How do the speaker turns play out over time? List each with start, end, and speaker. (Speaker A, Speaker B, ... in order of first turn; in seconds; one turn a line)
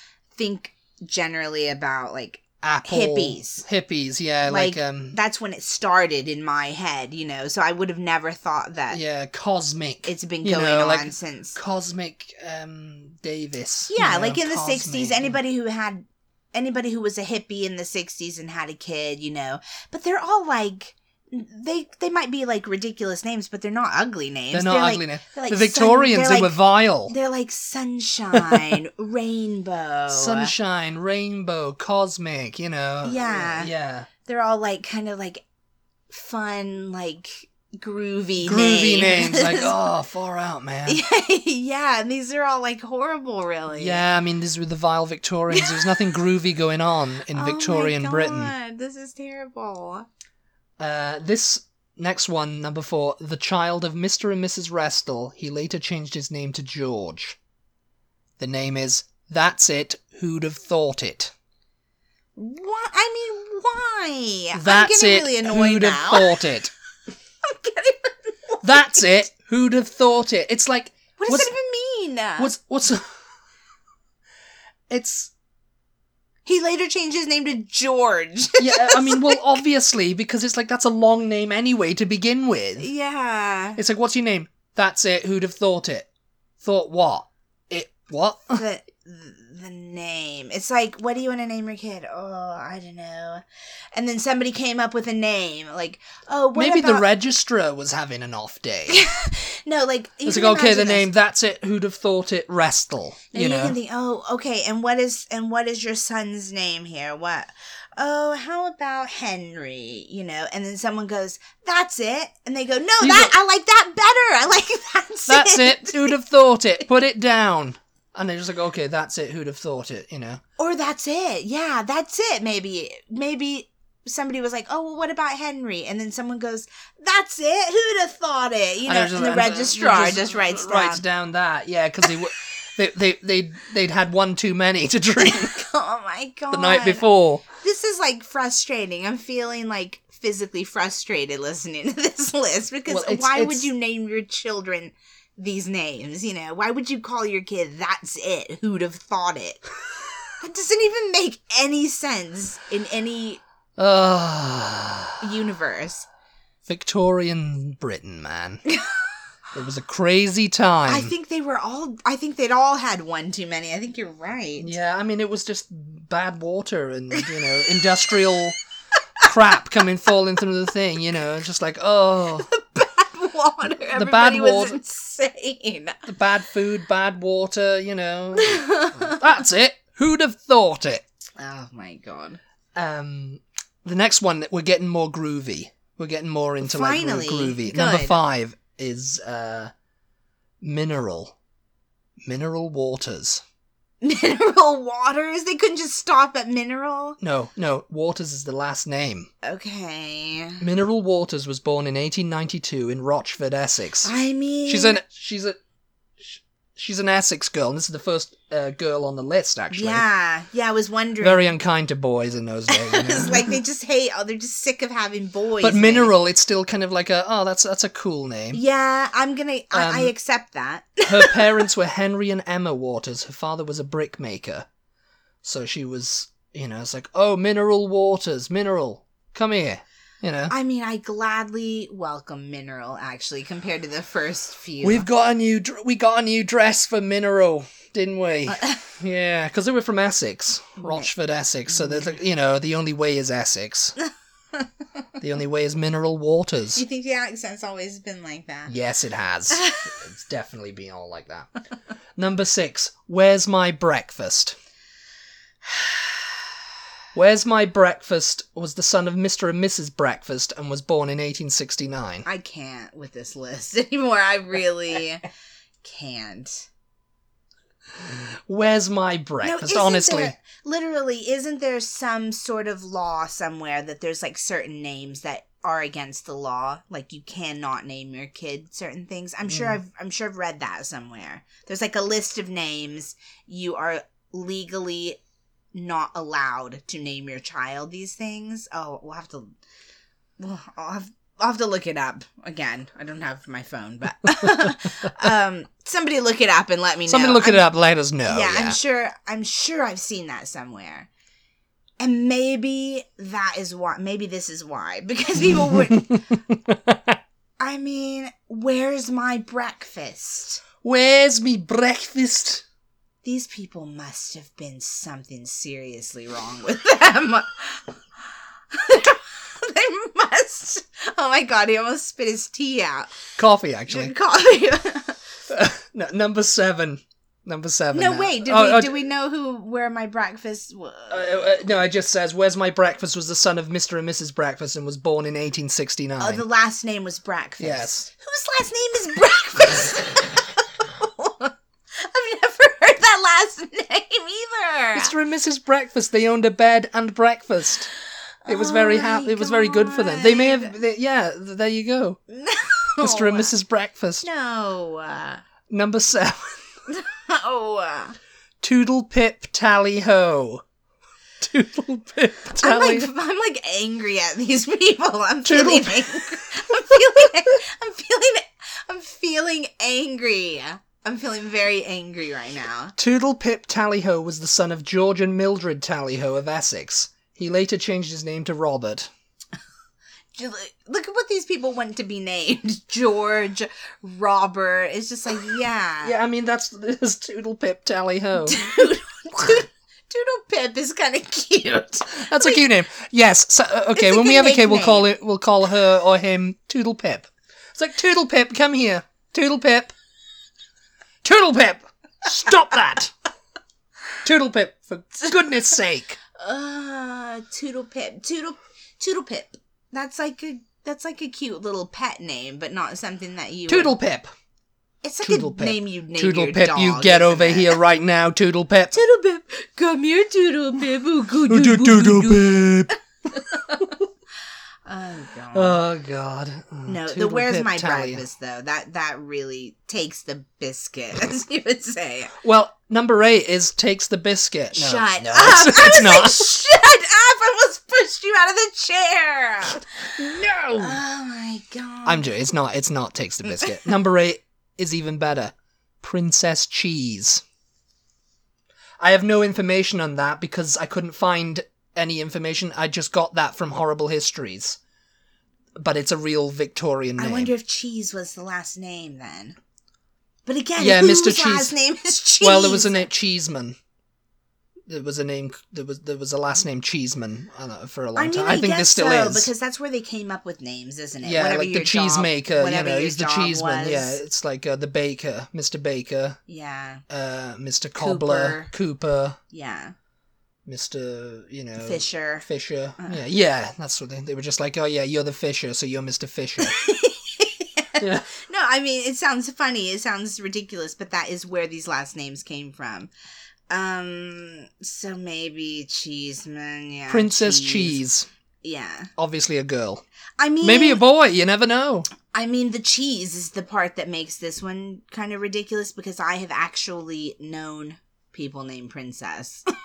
Speaker A: 0.3-3.6
Speaker B: 2.6-5.2
Speaker A: 4.5-9.0
Speaker B: 8.9-15.4
Speaker A: 10.0-11.6
Speaker A: 13.9-30.5
Speaker B: 24.5-27.1
Speaker B: 28.3-28.8
Speaker B: 30.1-34.1
Speaker A: 33.0-33.7
Speaker A: 34.2-35.4
Speaker A: 36.1-39.7
Speaker B: 38.4-41.0
Speaker A: 40.9-44.0
Speaker B: 43.7-48.5
Speaker A: 45.5-46.2
Speaker A: 47.3-50.1
Speaker B: 50.8-57.4
Speaker B: 58.4-61.3
Speaker A: 62.4-66.4
Speaker B: 64.5-66.7
Speaker A: 67.4-69.2
Speaker B: 68.6-71.5
Speaker A: 71.2-72.5
Speaker B: 72.4-73.0
Speaker B: 74.9-75.3
Speaker A: 76.4-79.6
Speaker B: 78.6-82.9
Speaker A: 82.8-83.8
Speaker B: 83.8-86.1
Speaker B: 86.6-88.6
Speaker A: 88.5-93.4
Speaker A: 93.9-97.0
Speaker B: 96.5-99.0
Speaker A: 98.9-101.1
Speaker B: 100.2-103.8
Speaker A: 103.3-116.2
Speaker B: 113.0-113.3
Speaker B: 115.3-120.4
Speaker A: 120.6-131.0
Speaker B: 128.8-135.6
Speaker A: 135.2-149.6
Speaker B: 136.5-137.4
Speaker B: 142.8-143.7
Speaker A: 150.4-153.4
Speaker B: 153.8-155.2
Speaker A: 155.2-156.1
Speaker B: 156.7-158.6
Speaker B: 159.5-161.1
Speaker A: 160.9-164.7
Speaker B: 164.6-168.6
Speaker B: 169.2-172.5
Speaker A: 172.4-176.0
Speaker B: 173.9-174.8
Speaker B: 176.0-181.0
Speaker A: 178.4-179.2
Speaker A: 181.4-182.4
Speaker B: 182.7-189.7
Speaker A: 186.6-188.2
Speaker B: 190.6-191.3
Speaker B: 192.2-193.4
Speaker A: 194.0-197.2
Speaker B: 197.2-199.3
Speaker A: 199.4-200.7
Speaker B: 200.6-204.1
Speaker A: 204.0-205.0
Speaker B: 204.7-205.6
Speaker B: 206.2-210.0
Speaker A: 209.7-211.5
Speaker B: 211.2-213.6
Speaker A: 212.7-216.1
Speaker B: 215.6-218.6
Speaker A: 218.5-221.6
Speaker B: 219.7-220.1
Speaker B: 221.0-224.7
Speaker B: 225.4-230.5
Speaker A: 230.5-235.1
Speaker B: 234.8-243.9
Speaker A: 238.5-238.8
Speaker A: 240.8-241.1
Speaker A: 241.7-242.2
Speaker B: 245.2-246.8
Speaker A: 246.7-248.7
Speaker B: 248.7-251.5
Speaker A: 249.5-249.8
Speaker B: 252.2-254.6
Speaker B: 257.1-262.2
Speaker A: 262.2-265.2
Speaker A: 265.8-266.7
Speaker B: 268.0-270.3
Speaker A: 269.4-285.2
Speaker B: 279.5-279.8
Speaker A: 285.7-289.5
Speaker A: 290.4-297.6
Speaker B: 294.4-294.7
Speaker B: 297.1-298.8
Speaker A: 298.2-301.1
Speaker A: 302.0-306.2
Speaker B: 305.4-307.2
Speaker A: 307.6-310.6
Speaker B: 310.8-312.6
Speaker A: 313.2-318.0
Speaker A: 318.7-323.1
Speaker B: 323.4-324.1
Speaker A: 323.9-325.2
Speaker B: 325.5-329.0
Speaker A: 327.9-331.5
Speaker B: 331.1-336.4
Speaker A: 336.2-345.1
Speaker B: 337.6-338.1
Speaker B: 344.9-347.9
Speaker A: 348.4-350.8
Speaker B: 348.5-352.2
Speaker A: 352.3-353.5
Speaker B: 353.0-354.2
Speaker A: 354.2-355.4
Speaker B: 355.7-356.6
Speaker A: 356.9-358.2
Speaker B: 358.6-360.6
Speaker B: 361.4-363.1
Speaker A: 362.6-372.9
Speaker B: 365.4-366.4
Speaker B: 373.0-379.1
Speaker A: 380.3-386.2
Speaker B: 386.0-388.6
Speaker A: 388.4-392.6
Speaker B: 392.1-399.9
Speaker A: 393.9-395.1
Speaker B: 401.2-403.1
Speaker B: 404.2-406.2
Speaker A: 406.4-413.9
Speaker B: 413.7-414.3
Speaker A: 415.0-417.8
Speaker B: 415.2-418.9
Speaker A: 418.9-423.9
Speaker B: 421.5-422.9
Speaker B: 423.6-424.0
Speaker A: 424.9-425.8
Speaker B: 425.5-428.2
Speaker A: 426.9-432.3
Speaker B: 432.4-436.6
Speaker A: 434.7-440.1
Speaker B: 440.1-441.0
Speaker A: 440.8-442.3
Speaker B: 442.0-447.4
Speaker B: 449.0-454.8
Speaker B: 455.8-457.5
Speaker A: 457.2-459.6
Speaker A: 460.4-463.1
Speaker B: 460.8-461.8
Speaker B: 462.4-463.8
Speaker B: 464.9-469.5
Speaker A: 468.1-474.2
Speaker B: 471.2-476.4
Speaker A: 476.5-477.0
Speaker B: 477.1-479.4
Speaker A: 478.0-478.7
Speaker A: 479.5-479.9
Speaker B: 480.6-486.7
Speaker A: 481.8-482.4
Speaker A: 486.6-493.1
Speaker B: 488.0-488.3
Speaker A: 493.7-498.0
Speaker B: 497.1-498.3
Speaker A: 498.6-499.1
Speaker B: 499.2-500.0
Speaker A: 500.4-501.0
Speaker B: 500.6-502.1
Speaker A: 502.3-509.7